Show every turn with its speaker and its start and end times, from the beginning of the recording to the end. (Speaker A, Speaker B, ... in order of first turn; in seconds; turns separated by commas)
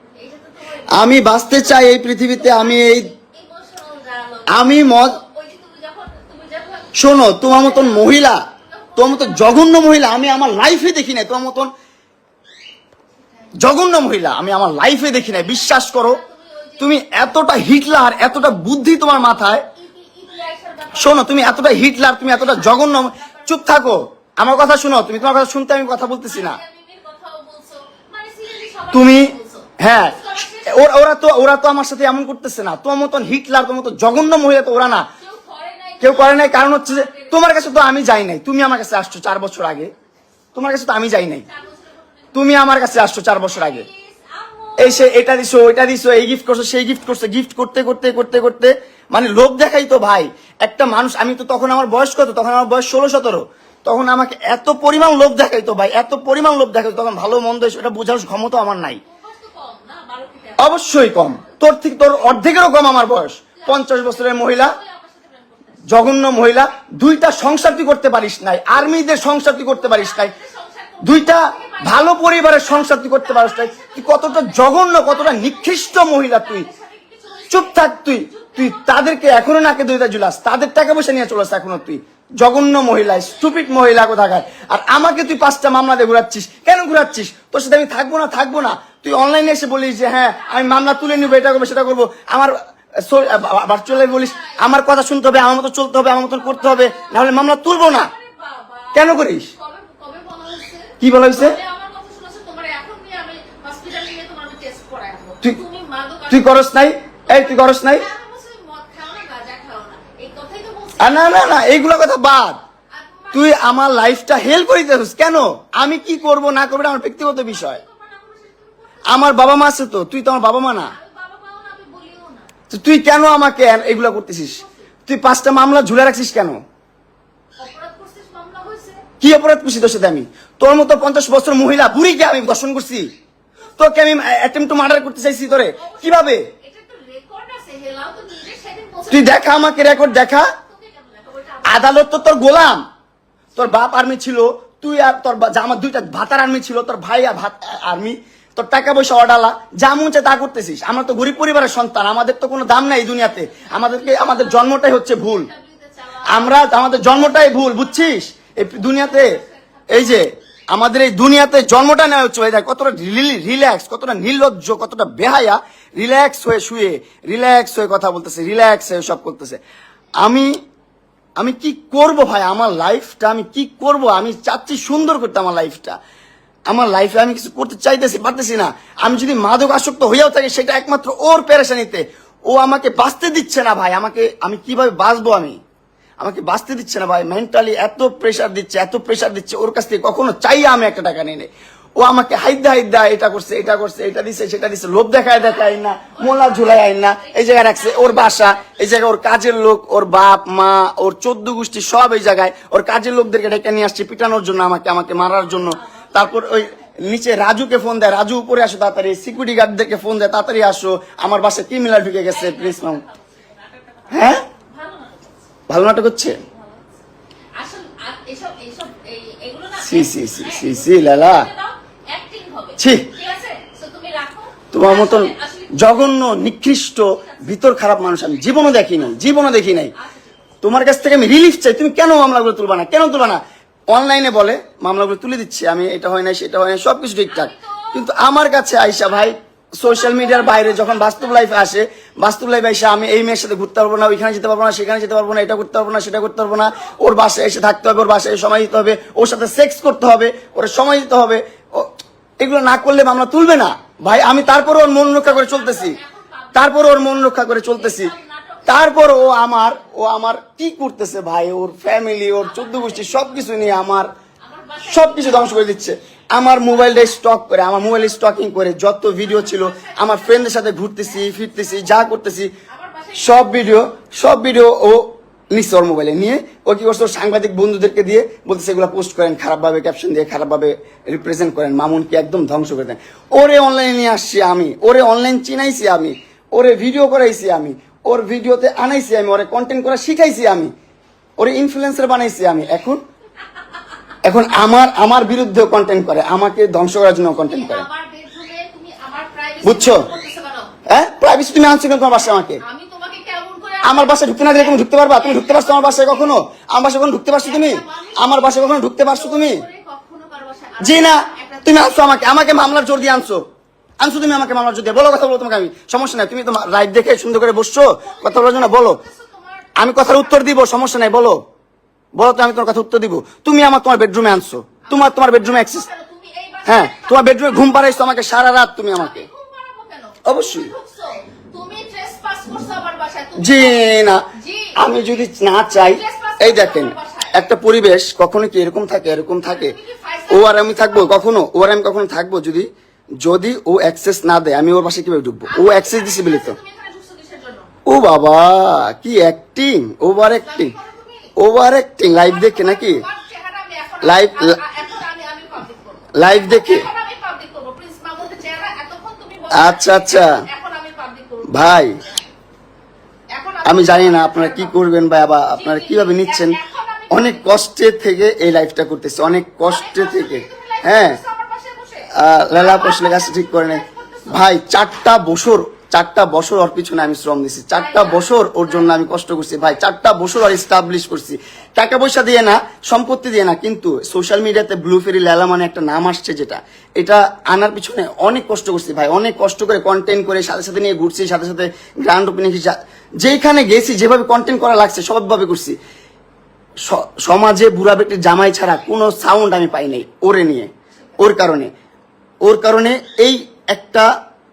Speaker A: 0.2-9.8, Speaker B: 0.9-3.1, Speaker B: 4.5-5.2, Speaker B: 7.0-8.4, Speaker B: 9.0-11.7, Speaker A: 13.2-13.6, Speaker B: 13.5-16.2, Speaker A: 15.1-23.8, Speaker B: 16.8-19.7, Speaker B: 20.9-26.6, Speaker A: 26.2-30.9, Speaker B: 28.9-35.1, Speaker A: 35.2-37.7, Speaker B: 36.0-39.9, Speaker B: 40.5-41.5, Speaker A: 41.4-42.6, Speaker B: 42.3-43.9, Speaker A: 43.4-45.1, Speaker B: 44.8-59.0, Speaker A: 59.0-60.8, Speaker B: 60.6-64.8, Speaker A: 63.6-65.9, Speaker B: 65.9-70.3, Speaker A: 69.3-79.4, Speaker B: 71.0-76.7, Speaker B: 77.5-98.1, Speaker A: 83.0-85.3, Speaker A: 90.4-91.7, Speaker A: 93.8-94.8, Speaker A: 96.3-106.7, Speaker B: 98.9-99.5, Speaker B: 101.0-101.6, Speaker B: 106.3-108.1, Speaker A: 107.3-111.6, Speaker B: 111.0-112.6, Speaker A: 112.9-114.6, Speaker B: 113.3-117.8, Speaker A: 115.8-119.5, Speaker B: 119.1-121.0, Speaker A: 120.8-122.5, Speaker B: 122.7-126.6, Speaker A: 124.2-124.9, Speaker A: 127.6-129.0, Speaker B: 129.2-133.1, Speaker B: 133.8-136.5, Speaker A: 135.7-142.0, Speaker B: 139.1-140.5, Speaker B: 141.7-142.8, Speaker B: 143.6-155.5, Speaker A: 153.4-160.3, Speaker B: 156.3-169.6, Speaker B: 170.2-170.6, Speaker B: 171.4-176.0, Speaker B: 176.7-185.6, Speaker B: 186.2-213.0, Speaker A: 195.4-198.6, Speaker A: 205.5-206.8, Speaker A: 212.3-215.5, Speaker B: 214.1-214.4, Speaker B: 215.7-216.4, Speaker A: 216.4-217.0, Speaker A: 217.6-226.2, Speaker B: 219.8-221.5, Speaker B: 222.8-223.1, Speaker B: 224.7-229.9, Speaker A: 227.1-227.5, Speaker A: 228.9-230.4, Speaker B: 230.6-256.0, Speaker A: 237.3-238.1, Speaker A: 239.8-241.5, Speaker A: 254.1-259.3, Speaker B: 256.6-258.1, Speaker B: 258.7-264.1, Speaker A: 262.4-263.7, Speaker A: 264.4-265.8, Speaker B: 264.8-272.5, Speaker A: 266.8-267.0, Speaker A: 269.2-272.1, Speaker A: 272.7-273.8, Speaker B: 273.2-290.7, Speaker B: 291.4-293.0, Speaker B: 294.2-297.9, Speaker A: 297.4-300.7, Speaker B: 299.6-300.1, Speaker B: 300.9-302.6, Speaker A: 302.6-306.4, Speaker B: 303.8-309.6, Speaker A: 307.4-312.7, Speaker B: 310.8-313.4, Speaker B: 314.0-319.0, Speaker A: 318.0-320.5, Speaker B: 319.8-321.4, Speaker B: 322.2-325.9, Speaker A: 324.9-328.3, Speaker B: 326.7-329.3, Speaker A: 328.9-333.8, Speaker B: 330.2-330.7, Speaker B: 333.4-334.2, Speaker A: 334.3-335.2, Speaker B: 334.8-339.7, Speaker A: 335.8-337.4, Speaker A: 339.4-341.3, Speaker B: 340.3-342.7, Speaker B: 343.2-346.6, Speaker A: 345.5-347.7, Speaker B: 347.9-350.7, Speaker A: 350.4-351.3, Speaker B: 351.4-353.0, Speaker A: 352.1-362.3, Speaker B: 354.0-354.6, Speaker B: 356.1-356.9, Speaker B: 359.5-360.4, Speaker B: 361.5-362.0, Speaker A: 363.3-364.8, Speaker B: 363.6-366.6, Speaker A: 365.5-367.5, Speaker B: 367.1-371.2, Speaker A: 369.6-374.5, Speaker B: 372.1-395.8, Speaker A: 377.7-379.0, Speaker B: 396.9-401.7, Speaker A: 400.9-401.3, Speaker B: 402.4-404.1